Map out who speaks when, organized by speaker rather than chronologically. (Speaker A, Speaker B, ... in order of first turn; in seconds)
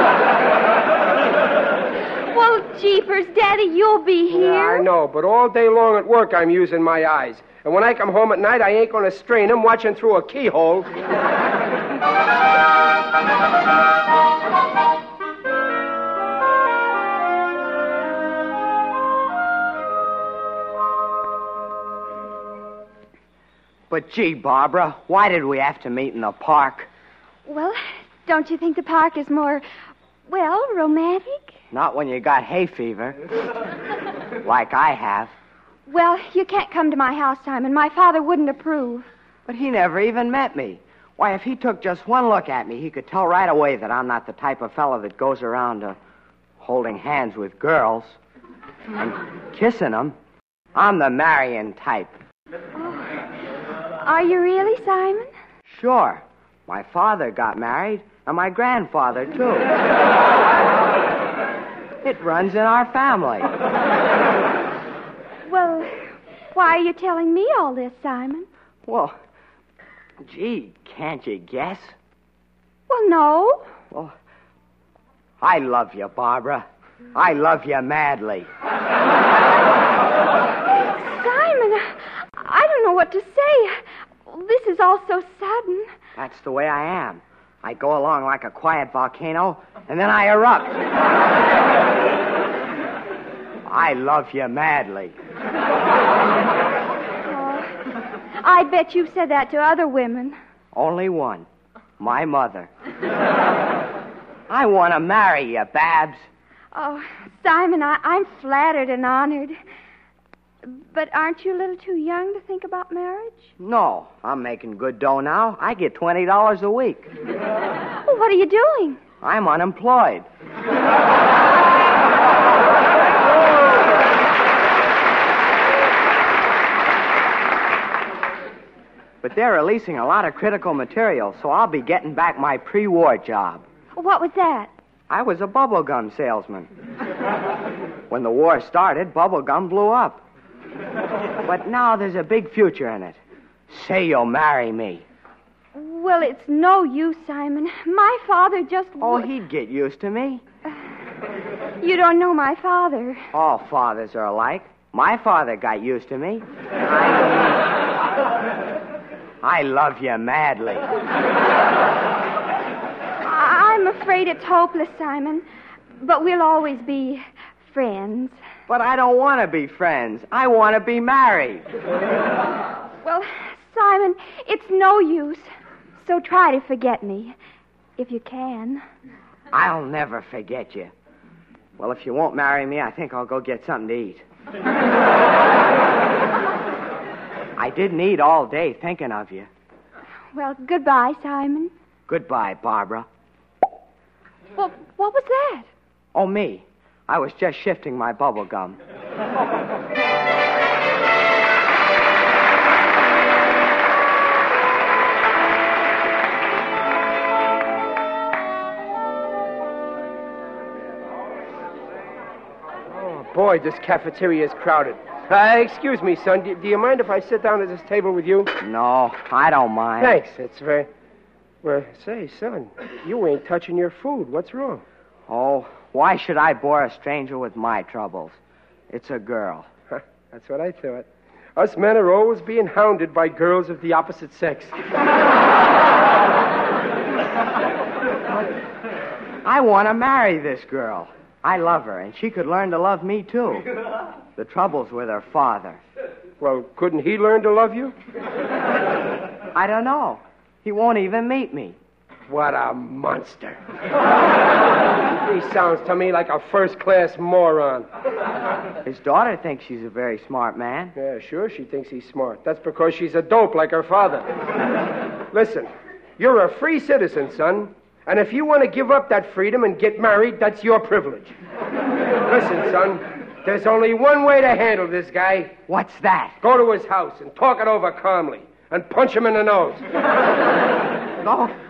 Speaker A: 2.3-4.8, 27.4-29.6, 30.3-31.5, 35.9-39.0, 52.8-53.2, 54.0-55.3, 65.5-66.0, 66.5-68.5, 72.9-73.7, 80.7-85.9, 97.2-97.8, 98.4-100.4, 106.7-109.6, 110.6-113.5, 118.0-119.0, 133.9-134.7, 145.7-149.3, 151.8-153.2, 163.2-165.4, 166.0-168.4, 173.0-175.5, 176.0-177.3, 178.0-178.8, 190.3-191.7, 194.6-195.7
Speaker B: 4.3-10.9, 212.9-218.5, 220.0-220.9, 221.6-224.8, 229.9-234.8, 246.4-247.9, 252.3-253.6, 255.1-257.9, 260.9-264.3, 265.3-271.4, 272.2-275.6, 276.4-279.8
Speaker C: 23.9-26.9, 31.7-33.2, 34.4-35.3, 39.5-46.0, 46.6-48.2, 49.0-50.1, 50.7-52.1, 55.6-59.7, 62.0-63.5, 68.8-69.2, 70.2-71.9, 75.4-78.5, 86.1-90.8, 93.6-95.1, 100.7-101.5, 102.0-102.7, 104.5-106.2, 113.6-117.1, 119.2-120.2, 129.2-133.6, 135.1-136.7, 138.1-140.2, 141.4-143.2, 143.7-145.0, 149.0-150.4, 153.3-157.4, 159.4-160.9, 168.7-171.7, 179.5-180.9, 181.8-184.2, 187.6-189.5, 192.1-193.1, 196.1-198.8, 218.6-220.2, 225.3-228.4, 228.9-229.7, 239.4-243.7, 244.3-245.8, 249.5-251.8, 258.8-260.9, 275.7-276.4, 281.2-281.5